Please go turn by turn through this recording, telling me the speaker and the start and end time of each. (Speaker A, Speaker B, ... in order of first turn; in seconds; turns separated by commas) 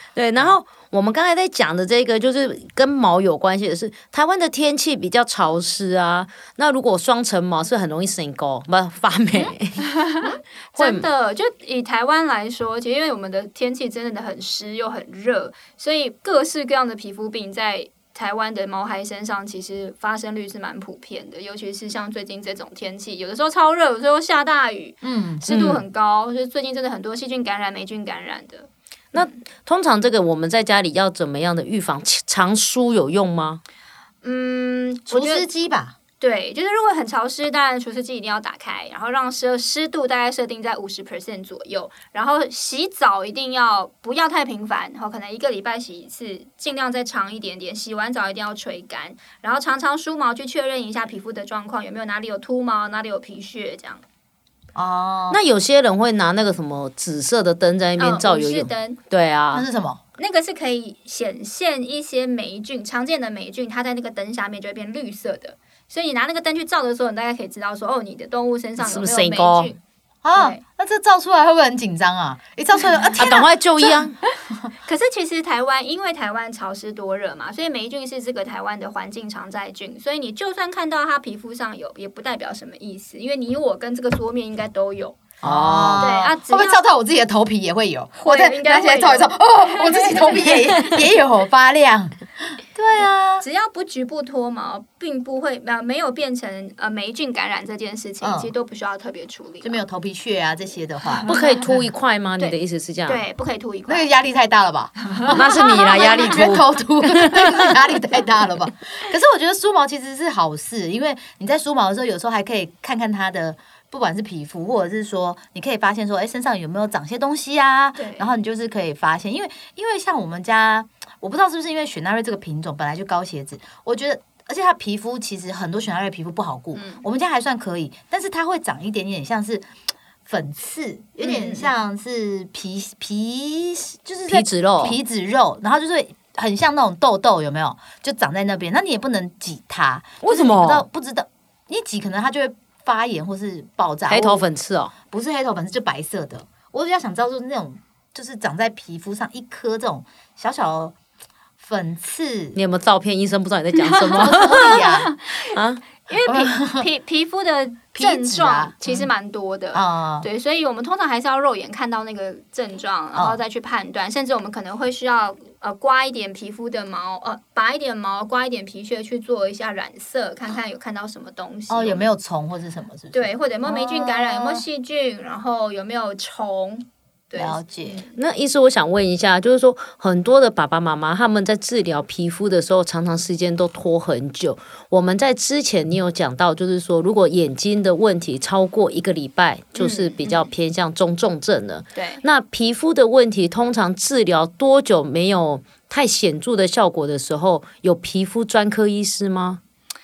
Speaker A: 0.1-9.8, Speaker B: 9.8-28.7, Speaker A: 10.7-11.1, Speaker C: 25.0-25.4, Speaker A: 25.5-25.8, Speaker A: 29.1-33.6, Speaker B: 34.2-35.5, Speaker C: 35.1-36.0, Speaker B: 36.2-54.0, Speaker C: 54.7-55.4, Speaker A: 55.3-59.6, Speaker B: 58.0-59.0, Speaker C: 59.5-60.0, Speaker B: 60.2-69.8, Speaker A: 68.8-69.7, Speaker C: 70.2-73.5, Speaker B: 70.3-70.6, Speaker A: 73.2-74.2, Speaker B: 74.8-85.2, Speaker C: 85.4-92.2, Speaker A: 85.4-86.1, Speaker B: 85.9-86.8, Speaker B: 88.2-90.9, Speaker C: 92.7-93.4, Speaker B: 93.4-99.8, Speaker C: 98.2-98.5, Speaker C: 99.6-101.3, Speaker A: 101.3-103.2, Speaker B: 102.4-104.1, Speaker C: 103.9-129.7, Speaker B: 105.2-106.5, Speaker A: 105.3-107.6, Speaker B: 118.0-118.3, Speaker B: 126.7-127.0, Speaker C: 130.2-144.4, Speaker B: 131.2-131.7, Speaker A: 134.2-135.0, Speaker A: 140.2-140.8, Speaker A: 144.1-144.9, Speaker C: 145.1-150.9, Speaker C: 151.6-152.6, Speaker A: 152.5-154.8, Speaker B: 153.9-172.1, Speaker C: 154.1-155.1, Speaker A: 155.5-155.8, Speaker C: 156.2-156.9, Speaker C: 157.9-159.1, Speaker C: 159.7-160.3, Speaker C: 163.1-163.4, Speaker C: 171.7-174.7, Speaker B: 173.1-178.1, Speaker C: 177.3-178.0, Speaker A: 178.1-199.6, Speaker B: 189.8-190.5, Speaker B: 191.9-192.2